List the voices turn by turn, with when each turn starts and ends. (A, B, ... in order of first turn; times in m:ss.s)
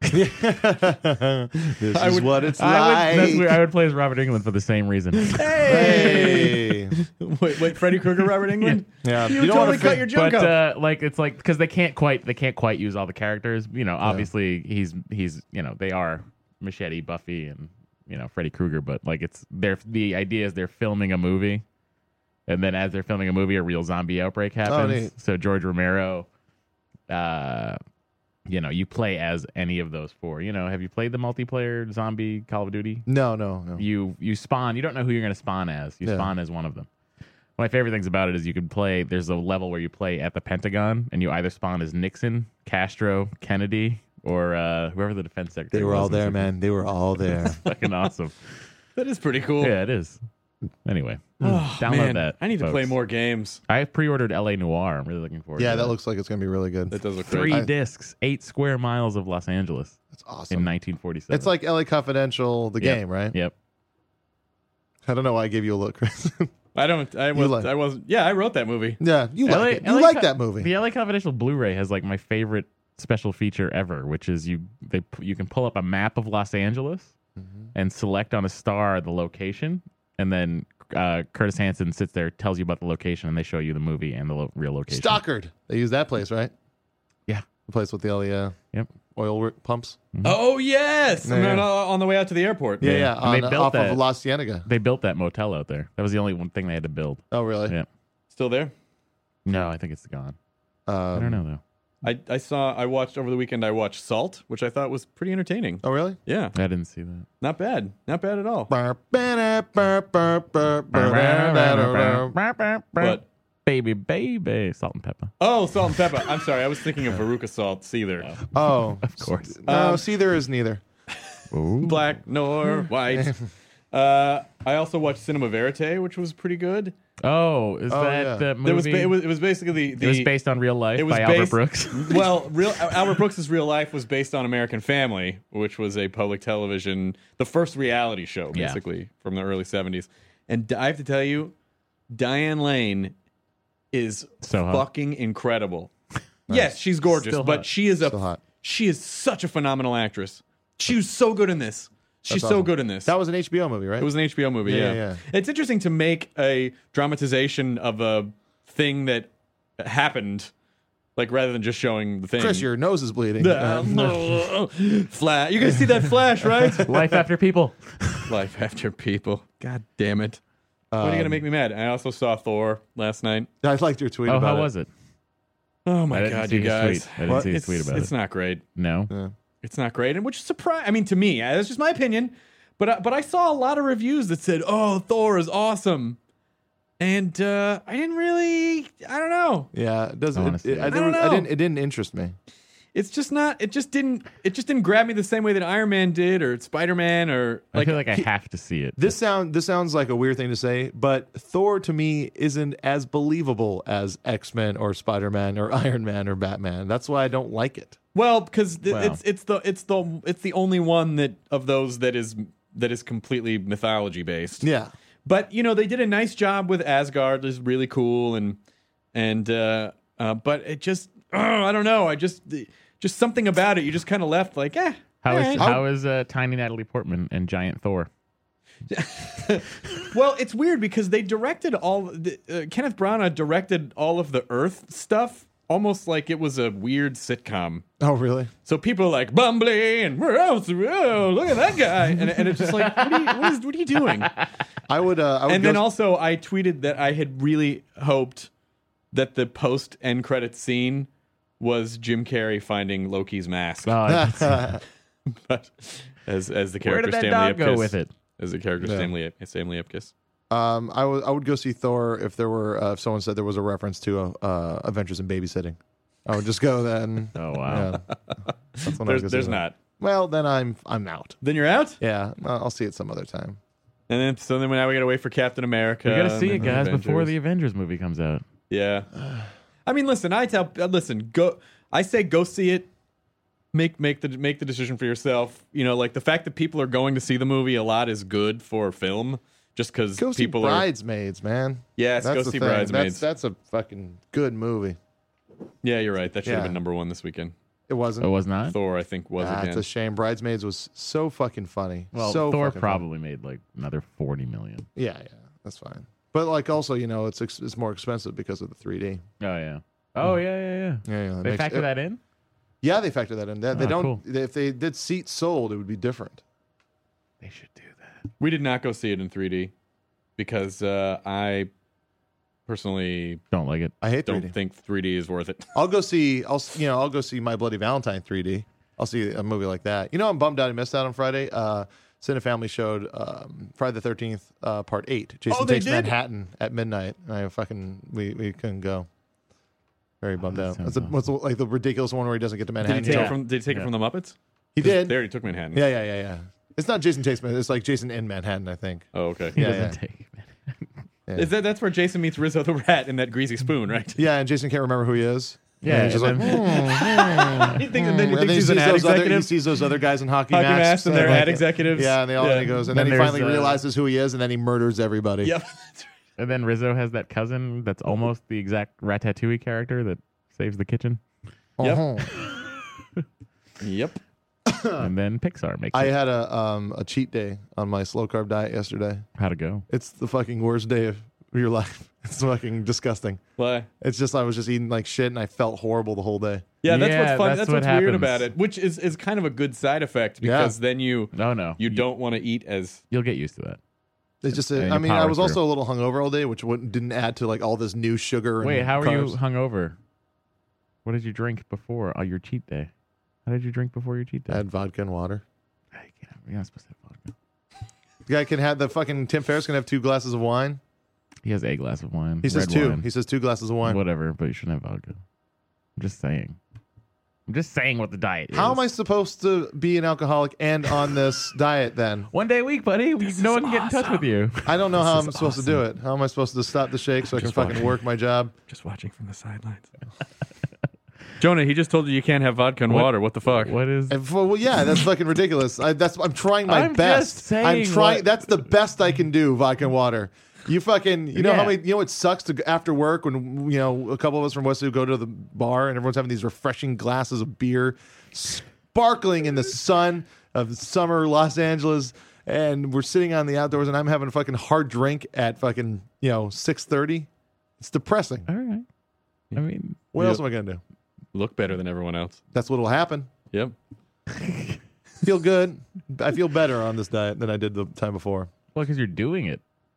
0:00.1-0:03.6 A
0:01.9-0:02.5 B
0:02.6-0:06.4 C
0:05.2-0:10.6 B
0:05.6-0:07.0 A
0:09.0-0:10.1 A
0:10.1-0:21.6 C
0:14.0-0:14.3 A
0:22.5-0:26.3 C
0:24.6-0:25.1 A
0:27.1-0:27.8 C
0:28.5-0:33.1 C
0:33.1-0:33.8 A
0:33.8-0:36.9 C
0:36.0-0:36.3 A
0:37.6-0:46.5 C
0:45.7-0:47.6 A
0:47.3-0:48.5 C
0:49.0-0:49.8 B
0:49.6-0:50.2 C
0:50.8-0:53.0 C
0:51.4-0:53.6 B
0:53.7-0:55.9 C
0:55.6-0:57.7 A
0:56.9-0:57.6 B
0:57.2-1:00.0 C
1:00.1-1:00.7 A
1:00.5-1:01.5 C
1:01.3-1:03.4 A
1:02.8-1:03.5 C
1:05.0-1:06.5 A
1:06.8-1:09.0 B
1:07.3-1:07.7 A
1:09.0-1:10.7 A
1:09.4-1:17.1 C
1:17.4-1:17.7 A
1:17.8-1:25.2 C
1:24.9-1:26.5 A
1:27.7-1:28.6 A
1:29.1-1:30.0 A
1:30.2-1:33.1 B
1:31.2-1:31.7 A
1:32.8-1:34.7 A
1:32.8-1:34.0 C
1:34.7-1:37.9 C
1:37.3-1:37.8 A
1:38.3-1:38.7 B
1:39.5-1:40.4 C
1:40.9-1:41.4 A
1:41.2-1:41.6 C
1:42.0-1:46.5 B
1:45.8-1:46.2 A
1:46.6-1:47.3 C
1:47.4-1:48.7 B
1:48.7-1:52.4 A
1:50.9-1:55.3 C
1:55.4-1:58.3 B
1:58.5-2:00.8 A
1:59.0-1:59.7 C
1:59.7-2:00.0 B
2:01.5-2:02.2 C
2:01.8-2:03.4 B
2:03.9-2:06.9 B
2:07.2-2:09.2 C
2:07.9-2:08.5 A
2:08.6-2:10.3 B
2:10.0-2:12.3 C
2:11.0-2:21.5 B
2:18.5-2:18.8 C
2:22.1-2:23.1 B
2:23.9-2:25.9 B
2:24.4-2:24.8 C
2:26.5-2:26.8 A
2:26.5-2:33.1 B
2:27.1-2:27.7 C
2:28.0-2:28.4 A
2:32.3-2:34.1 A
2:34.0-2:40.5 B
2:34.6-2:35.2 A
2:41.2-2:42.7 B
2:42.4-2:44.3 A
2:43.4-2:46.9 B
2:45.7-2:46.8 A
2:46.9-2:48.3 C
2:48.3-2:50.4 B
2:50.9-2:51.4 A
2:51.0-2:53.5 B
2:53.6-2:54.7 A
2:54.3-2:54.9 C
2:55.9-2:58.6 B
2:56.1-2:58.1 C
2:57.3-2:57.5 A
2:58.8-2:59.1 C
2:59.6-3:06.2 B
3:07.0-3:09.7 B
3:09.7-3:12.4 A
3:10.4-3:11.0 C
3:10.9-3:11.5 B
3:12.9-3:18.2 B
3:17.7-3:19.1 C
3:19.0-3:28.0 A
3:28.2-3:34.7 B
3:28.9-3:29.2 C
3:34.6-3:34.9 A
3:35.3-3:38.6 B
3:39.1-3:45.7 B
3:45.2-3:48.1 C
3:45.6-3:45.8 A
3:48.9-3:57.8 B
3:58.0-3:58.5 A
3:58.7-4:04.3 B
4:02.4-4:03.5 C
4:04.2-4:04.4 C
4:04.9-4:05.9 A
4:05.5-4:08.5 B
4:09.1-4:11.1 B
4:11.6-4:14.0 B
4:13.8-4:14.8 C
4:14.1-4:14.8 A
4:15.3-4:20.1 B
4:16.8-4:18.1 C
4:18.8-4:19.1 A
4:20.5-4:28.0 A
4:27.4-4:28.0 C
4:28.3-4:29.8 B
4:28.8-4:31.4 A
4:31.4-4:32.0 B
4:32.0-4:33.6 A
4:34.1-4:37.3 B
4:36.0-4:38.4 C
4:38.7-4:39.1 B
4:39.2-4:39.5 A
4:39.9-4:42.9 B
4:43.7-4:50.9 B
4:50.2-4:55.0 A
4:52.0-4:53.2 B
4:55.8-4:57.5 B
4:56.4-4:56.8 A
4:57.9-4:58.3 A
4:58.2-4:58.8 C
4:58.7-4:59.9 B
4:59.4-5:03.0 A
5:02.1-5:04.9 C
5:05.0-5:09.2 A
5:09.4-5:12.2 C
5:11.1-5:11.9 A
5:12.8-5:16.4 A
5:13.7-5:14.2 C
5:17.4-5:18.2 C
5:18.4-5:19.7 B
5:20.4-5:21.7 B
5:22.7-5:23.4 B
5:23.5-5:23.9 C
5:24.0-5:24.5 A
5:24.3-5:25.7 B
5:25.8-5:39.1 A
5:35.5-5:36.2 B
5:40.2-5:43.4 A
5:40.5-5:41.1 C
5:42.8-5:45.8 B
5:42.9-5:43.9 C
5:44.8-5:45.2 A
5:45.7-5:50.0 A
5:49.1-5:49.6 B
5:49.6-5:50.9 C
5:51.4-5:54.2 B
5:54.2-6:05.6 A
5:55.8-5:57.6 C
5:56.4-5:59.6 B
6:00.5-6:02.8 B
6:01.2-6:01.6 C
6:02.9-6:03.8 C
6:05.4-6:06.1 B
6:06.4-6:11.2 C
6:11.8-6:12.3 A
6:13.8-6:14.2 B
6:14.7-6:15.1 A
6:15.0-6:16.1 C
6:15.9-6:19.3 A
6:19.4-6:19.8 C
6:19.9-6:23.4 A
6:23.6-6:23.9 B
6:24.0-6:26.7 A
6:26.8-6:33.0 B
6:26.9-6:28.5 C
6:30.4-6:30.8 A
6:31.3-6:32.1 C
6:33.1-6:33.8 C
6:34.4-6:39.4 A
6:34.5-6:35.6 C
6:38.6-6:40.0 C
6:41.0-6:42.9 C
6:43.5-6:44.6 C
6:44.5-6:45.4 A
6:46.0-6:47.3 C
6:48.3-6:50.8 A
6:51.4-6:53.1 C
6:52.4-6:54.0 A
6:53.8-6:55.2 C
6:56.0-6:56.6 C
6:57.5-6:58.8 C
6:58.5-7:02.3 A
7:02.3-7:05.8 C
7:03.2-7:04.3 B
7:04.6-7:08.5 A
7:07.4-7:07.8 C
7:08.7-7:09.9 B
7:11.4-7:13.8 B
7:12.9-7:14.2 C
7:14.1-7:37.3 A
7:16.7-7:18.3 C
7:21.3-7:21.8 C
7:37.8-7:38.5 A
7:38.5-7:38.8 C
7:39.6-7:40.0 C
7:40.1-7:40.8 A
7:41.3-7:42.4 B
7:42.5-7:43.3 A
7:44.3-7:44.8 C
7:45.2-7:48.5 A
7:48.7-7:49.6 C